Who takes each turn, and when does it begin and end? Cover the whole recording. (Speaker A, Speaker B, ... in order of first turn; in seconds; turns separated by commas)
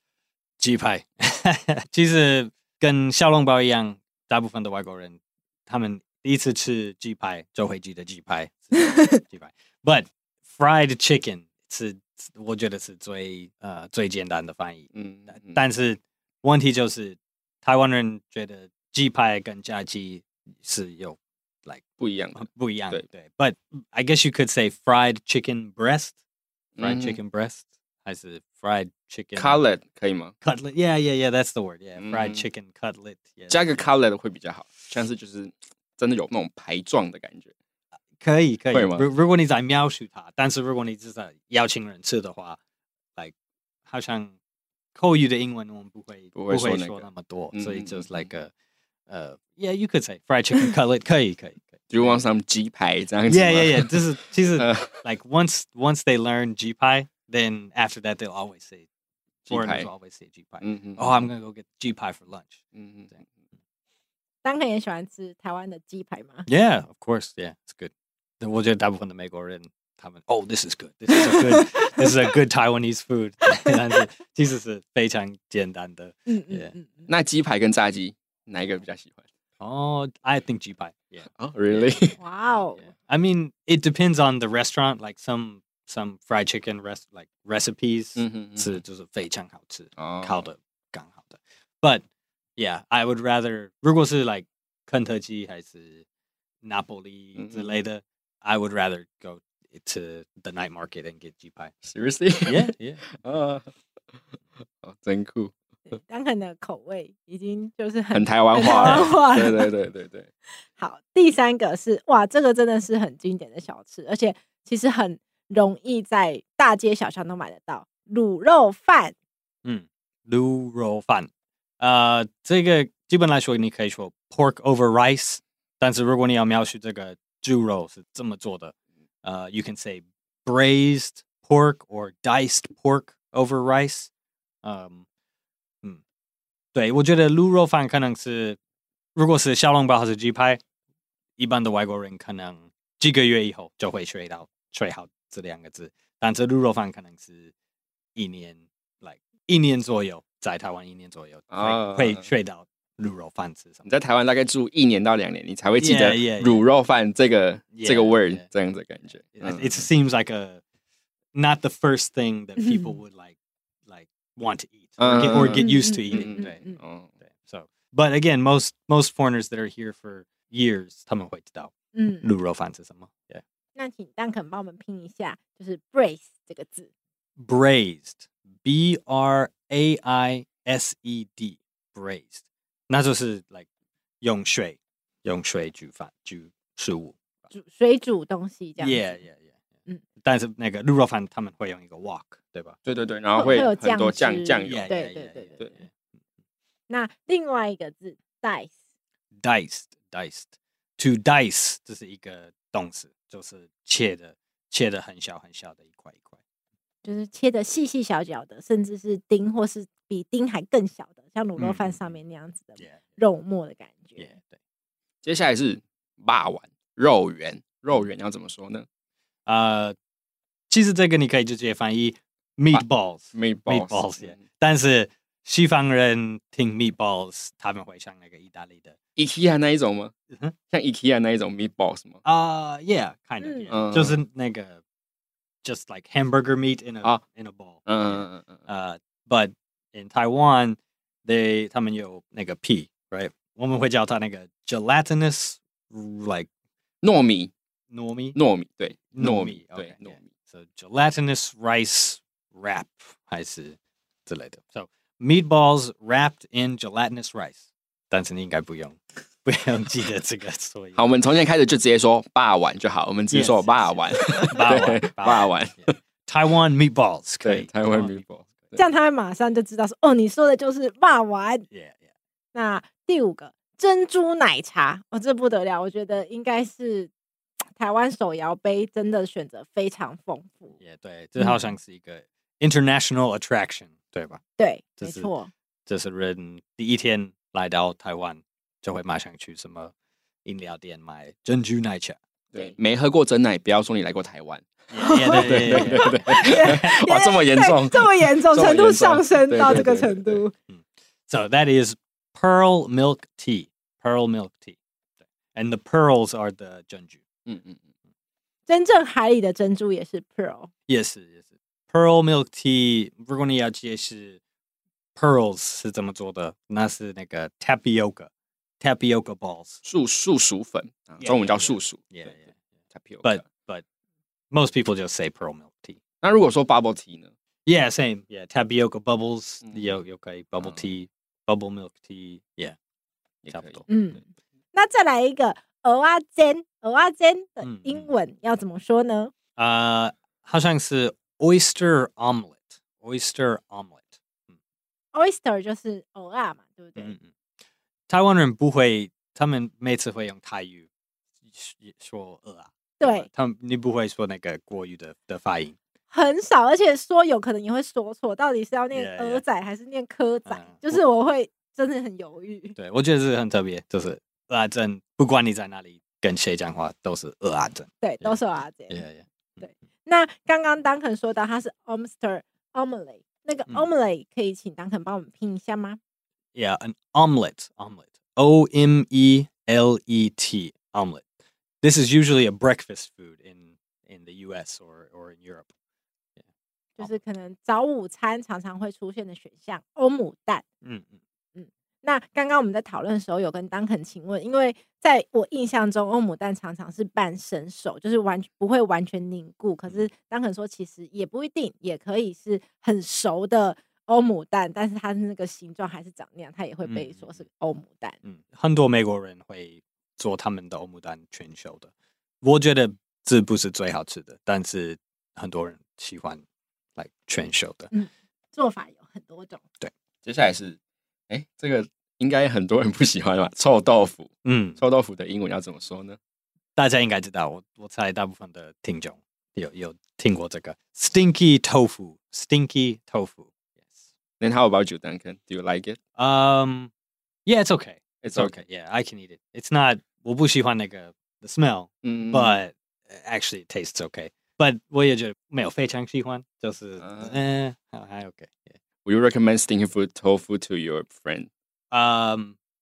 Speaker A: 0.6-21.8, Speaker B: 14.9-15.6, Speaker B: 22.0-23.0, Speaker A: 22.3-26.1, Speaker B: 26.8-27.2, Speaker A: 26.8-29.6, Speaker B: 29.4-30.3, Speaker A: 30.4-33.8, Speaker B: 32.0-32.4, Speaker B: 33.5-37.5, Speaker A: 38.2-42.6, Speaker B: 38.7-39.1, Speaker A: 43.9-44.4, Speaker A: 44.9-48.5, Speaker B: 46.3-48.3, Speaker A: 49.1-52.2, Speaker B: 51.9-54.0, Speaker A: 53.3-58.9, Speaker B: 54.6-55.0, Speaker B: 59.5-59.9, Speaker A: 59.5-63.2, Speaker B: 60.6-61.3, Speaker B: 62.8-63.1, Speaker C: 64.4-66.5, Speaker A: 66.5-76.7, Speaker C: 71.3-71.6, Speaker C: 76.3-77.1, Speaker B: 77.1-79.2, Speaker A: 79.6-82.2, Speaker B: 81.4-82.1, Speaker C: 82.2-82.8, Speaker A: 82.8-92.0, Speaker B: 88.2-88.7, Speaker B: 90.0-90.4, Speaker A: 92.6-96.0, Speaker A: 96.6-101.7, Speaker B: 97.3-97.8, Speaker B: 101.8-103.7, Speaker A: 102.4-103.0, Speaker B: 104.8-105.5, Speaker C: 105.9-109.7, Speaker B: 108.1-110.3, Speaker A: 108.7-109.0, Speaker C: 110.8-119.1, Speaker A: 119.6-134.1, Speaker A: 134.6-135.0, Speaker A: 136.7-138.6, Speaker A: 139.1-140.6, Speaker A: 141.4-147.5, Speaker A: 148.2-153.9, Speaker B: 151.5-152.3, Speaker B: 153.8-159.9, Speaker A: 155.8-156.6, Speaker A: 157.7-158.4, Speaker A: 159.3-160.6, Speaker A: 161.3-163.3, Speaker C: 162.6-162.9, Speaker A: 163.9-166.7, Speaker B: 165.0-167.1, Speaker C: 165.6-166.8, Speaker A: 167.2-173.4, Speaker C: 171.9-172.2, Speaker C: 173.8-176.9, Speaker A: 177.4-183.7, Speaker A: 184.2-187.2, Speaker C: 187.5-189.2, Speaker A: 188.8-189.5, Speaker A: 190.2-192.8, Speaker B: 192.8-194.9, Speaker C: 193.3-195.6, Speaker A: 194.6-195.9, Speaker C: 196.9-198.7, Speaker A: 199.4-206.4, Speaker C: 207.0-214.2, Speaker A: 211.6-212.0, Speaker A: 214.2-214.6, Speaker B: 215.2-218.8, Speaker A: 219.4-220.0, Speaker A: 220.7-228.9, Speaker B: 222.7-224.4, Speaker B: 229.2-230.1, Speaker B: 230.7-232.2, Speaker A: 232.2-234.8, Speaker C: 233.4-233.7, Speaker B: 233.7-234.2, Speaker A: 235.6-246.5, Speaker B: 237.9-238.6, Speaker B: 247.0-247.5, Speaker A: 247.9-248.3, Speaker B: 248.3-250.2, Speaker A: 249.1-261.0, Speaker B: 260.9-265.9, Speaker A: 263.3-268.7, Speaker B: 267.4-268.8, Speaker C: 268.8-271.7, Speaker A: 271.7-272.0, Speaker C: 272.5-277.1, Speaker C: 277.8-280.7, Speaker A: 280.8-284.4, Speaker C: 281.4-281.7, Speaker C: 284.6-285.5, Speaker A: 285.0-285.3, Speaker A: 285.9-289.9, Speaker A: 290.4-292.2, Speaker B: 292.5-294.7, Speaker A: 294.9-296.9, Speaker C: 295.0-300.5, Speaker B: 295.2-300.4, Speaker A: 300.7-304.8, Speaker A: 305.5-307.2, Speaker B: 307.5-307.8, Speaker C: 308.7-310.7, Speaker A: 310.9-314.4, Speaker A: 315.2-319.8, Speaker B: 319.8-322.3, Speaker A: 321.2-322.6, Speaker B: 322.9-323.4, Speaker A: 323.2-323.8, Speaker A: 324.5-326.0, Speaker B: 326.2-327.3, Speaker A: 327.7-332.8, Speaker B: 329.7-329.9, Speaker B: 333.4-333.8, Speaker A: 333.5-333.9, Speaker C: 333.9-334.2, Speaker C: 334.7-339.3, Speaker A: 337.6-338.1, Speaker A: 339.6-344.5, Speaker C: 345.1-347.1, Speaker A: 347.0-347.3, Speaker A: 348.1-350.9, Speaker A: 351.5-355.8, Speaker C: 353.0-353.3, Speaker C: 356.1-362.8, Speaker A: 358.9-359.4, Speaker A: 360.4-361.0, Speaker A: 362.8-369.7, Speaker C: 368.0-369.0, Speaker C: 369.6-376.0, Speaker A: 376.6-381.2, Speaker A: 381.8-385.7, Speaker C: 387.0-390.6, Speaker A: 390.8-391.2, Speaker C: 391.6-408.2, Speaker A: 406.8-407.4, Speaker A: 408.2-411.9, Speaker A: 412.4-416.4, Speaker A: 417.0-417.9, Speaker C: 417.9-419.6, Speaker B: 420.2-420.8, Speaker B: 421.3-426.2, Speaker A: 424.4-424.8, Speaker A: 426.8-434.0, Speaker B: 434.4-436.0, Speaker A: 436.2-436.9, Speaker A: 437.4-448.7, Speaker B: 438.2-438.5, Speaker B: 442.0-442.6, Speaker B: 447.0-447.4, Speaker B: 449.1-451.5, Speaker A: 451.9-452.6